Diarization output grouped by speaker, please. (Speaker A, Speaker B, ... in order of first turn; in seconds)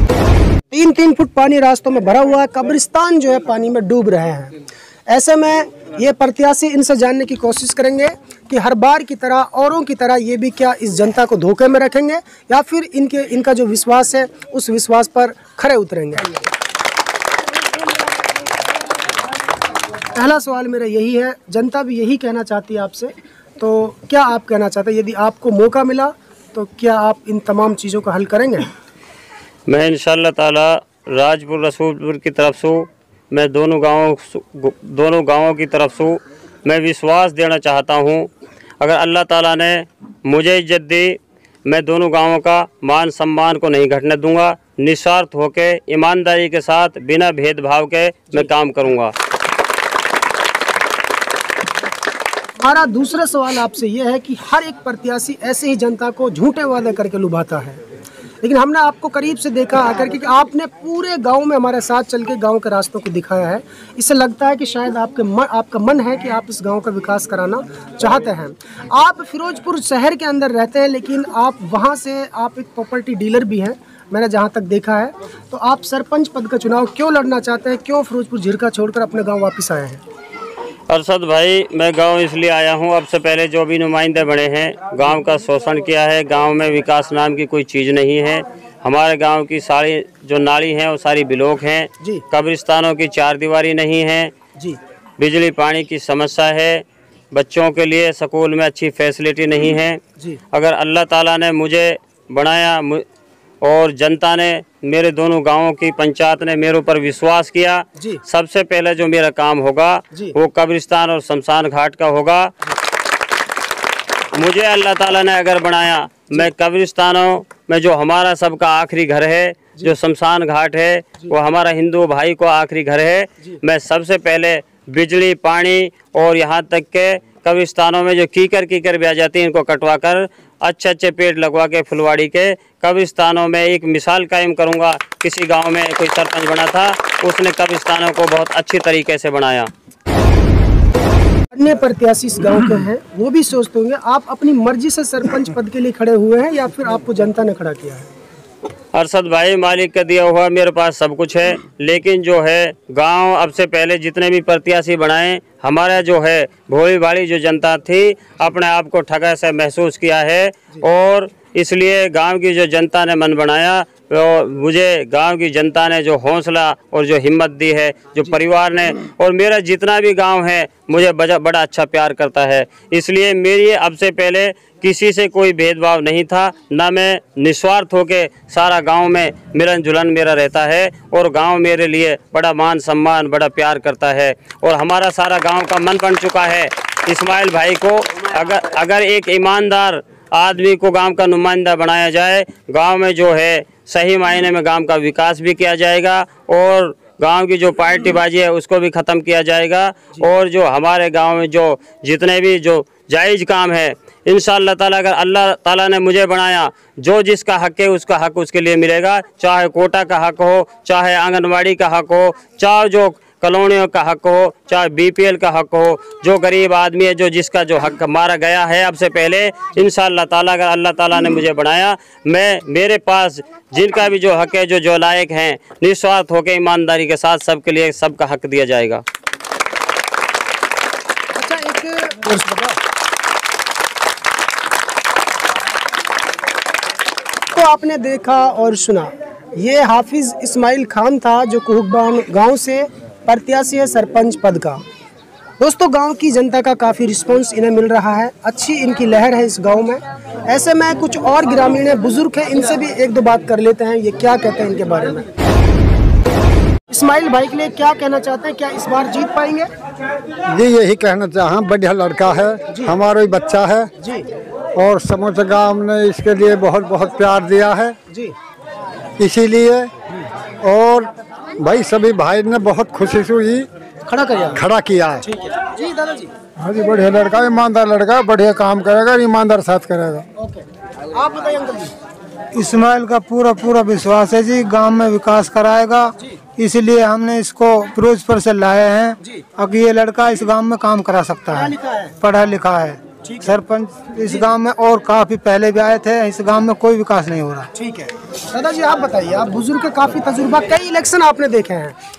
Speaker A: 0.7-4.6, 5.1-16.4, 20.1-28.7, 52.6-57.8, 58.4-80.0, 141.5-148.1, 231.3-232.8, 237.5-244.8, 245.6-255.3, 256.9-259.7, 262.7-262.9, 264.0-264.3, 268.1-268.4, 274.1-274.6, 275.2-276.3, 280.4-281.9, 291.5-292.1, 293.2-293.5, 294.2-294.5, 297.8-302.0
Speaker B: 29.7-38.3, 38.8-49.1, 80.9-94.3, 95.2-100.0, 100.5-103.0, 103.6-112.5, 114.3-139.7, 148.9-229.0
Speaker C: 260.5-263.9, 264.8-268.0, 269.2-269.9, 270.6-273.7, 274.5-275.2, 276.6-280.2
Speaker D: 282.5-297.7